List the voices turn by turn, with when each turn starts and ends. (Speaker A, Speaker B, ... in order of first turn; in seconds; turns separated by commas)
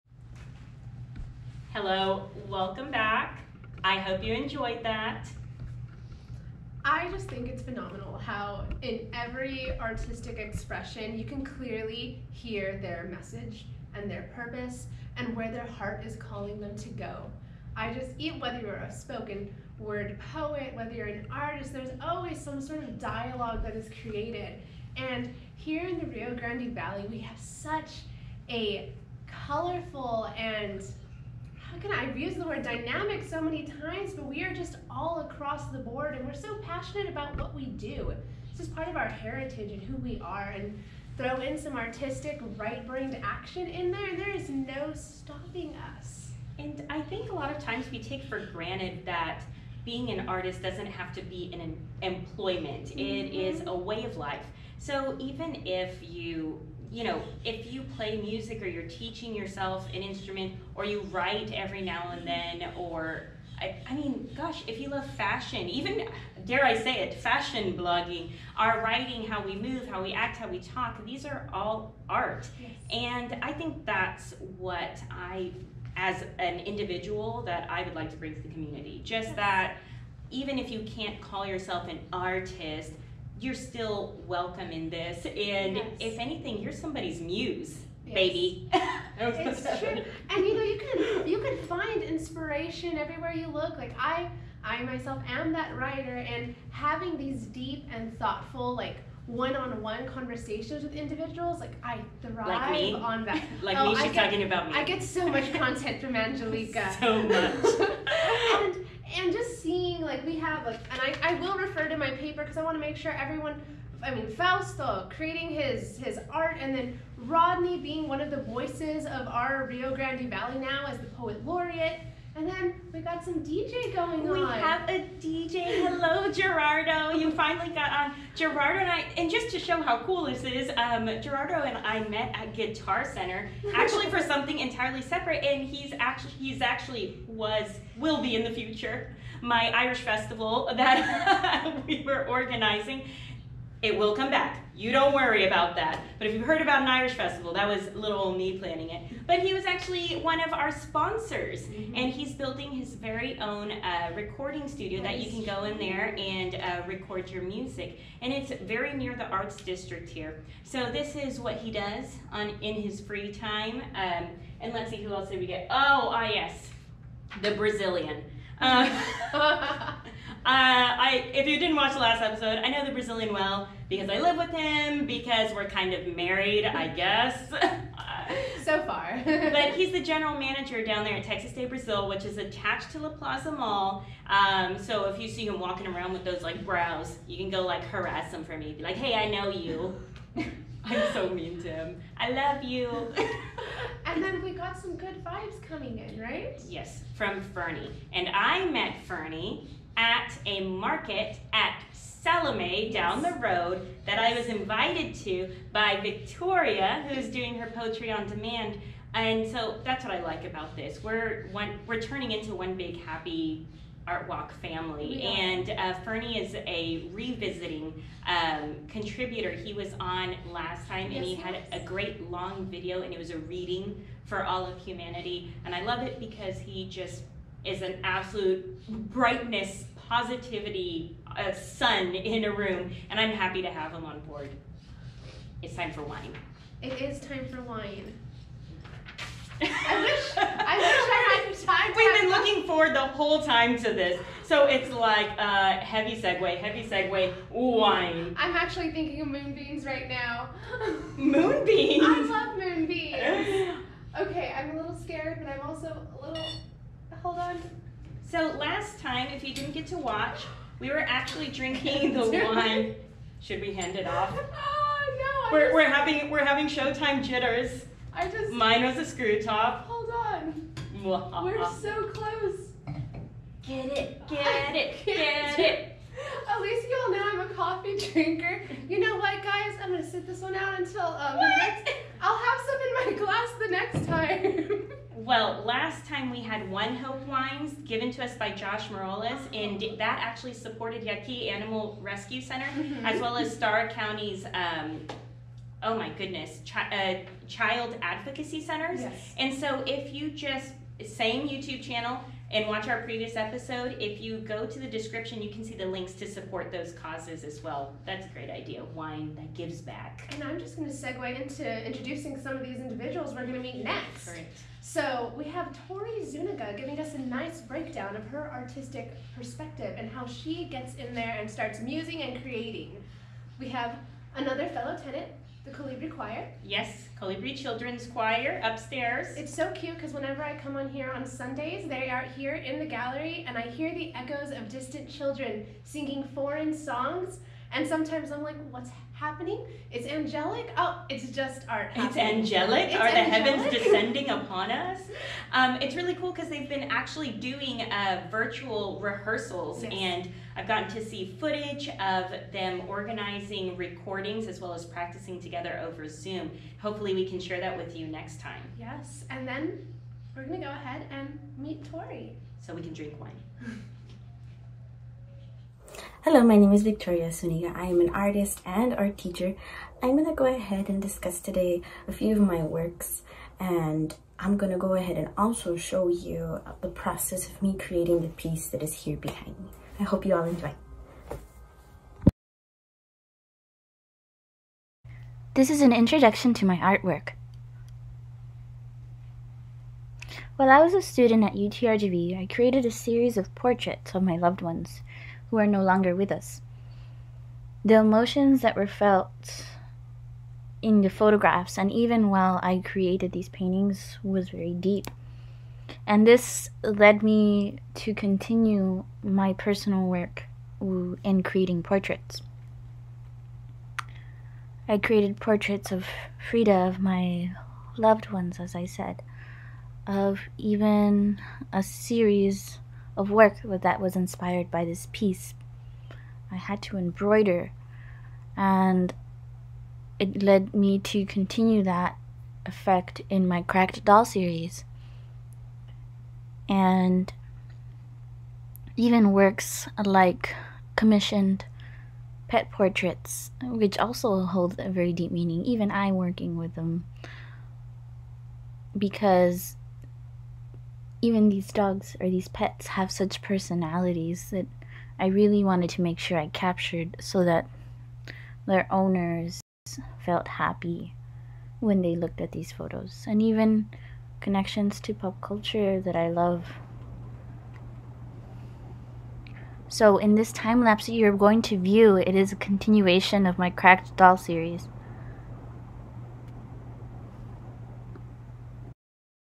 Speaker A: 1.7-5.3, Speaker B: 6.8-30.9, Speaker B: 31.6-46.4, Speaker A: 46.6-79.7, Speaker B: 52.9-53.7, Speaker B: 72.5-72.9, Speaker B: 79.3-79.6, Speaker A: 80.3-88.6, Speaker B: 85.6-86.1, Speaker B: 88.0-88.5, Speaker A: 89.2-90.1, Speaker B: 89.3-124.8, Speaker A: 102.4-104.9, Speaker A: 106.6-108.5, Speaker A: 124.2-143.0, Speaker B: 133.7-134.0, Speaker A: 143.8-166.7, Speaker B: 151.7-152.1, Speaker B: 155.0-156.2, Speaker A: 167.3-169.3, Speaker B: 168.6-169.9, Speaker A: 170.4-178.5, Speaker B: 178.3-179.7, Speaker A: 179.4-189.9, Speaker A: 190.8-193.3, Speaker B: 194.0-196.6, Speaker A: 196.6-234.6, Speaker B: 202.9-203.3, Speaker B: 204.1-204.4, Speaker B: 215.0-215.6, Speaker B: 221.1-221.8, Speaker A: 235.6-236.4, Speaker B: 236.8-238.2, Speaker A: 239.6-241.3, Speaker B: 239.8-242.5, Speaker A: 241.9-248.3, Speaker B: 248.3-251.2, Speaker A: 251.2-252.3, Speaker B: 252.0-256.6, Speaker A: 253.2-253.8, Speaker B: 257.1-257.7, Speaker A: 258.2-264.4, Speaker B: 261.7-262.9, Speaker B: 264.3-266.1, Speaker A: 265.5-267.9, Speaker B: 268.1-268.6, Speaker A: 268.5-269.8, Speaker B: 269.8-270.6, Speaker A: 270.9-271.7, Speaker B: 271.3-272.7, Speaker A: 273.6-275.8, Speaker B: 274.3-284.9, Speaker A: 281.4-281.7, Speaker A: 285.1-295.0, Speaker B: 292.7-293.3, Speaker A: 295.8-310.3, Speaker B: 298.9-299.3, Speaker B: 310.3-323.0, Speaker A: 313.8-314.6, Speaker B: 323.6-326.5, Speaker A: 326.6-329.4, Speaker B: 329.3-344.0, Speaker A: 341.9-358.7, Speaker B: 349.8-350.1, Speaker B: 358.7-359.8, Speaker B: 360.3-362.4, Speaker A: 362.6-363.4, Speaker C: 366.2-380.8, Speaker D: 385.5-387.4, Speaker D: 390.6-396.6, Speaker D: 397.8-399.7, Speaker D: 400.8-405.1, Speaker D: 406.1-412.4, Speaker D: 414.9-419.2, Speaker D: 420.1-425.6, Speaker D: 426.5-427.7, Speaker D: 428.6-429.1, Speaker D: 430.2-434.8, Speaker D: 436.7-437.3, Speaker D: 439.0-441.7, Speaker D: 442.5-447.1, Speaker D: 448.9-449.8, Speaker D: 451.2-457.7, Speaker D: 458.6-461.1, Speaker D: 461.8-466.8, Speaker D: 469.9-474.9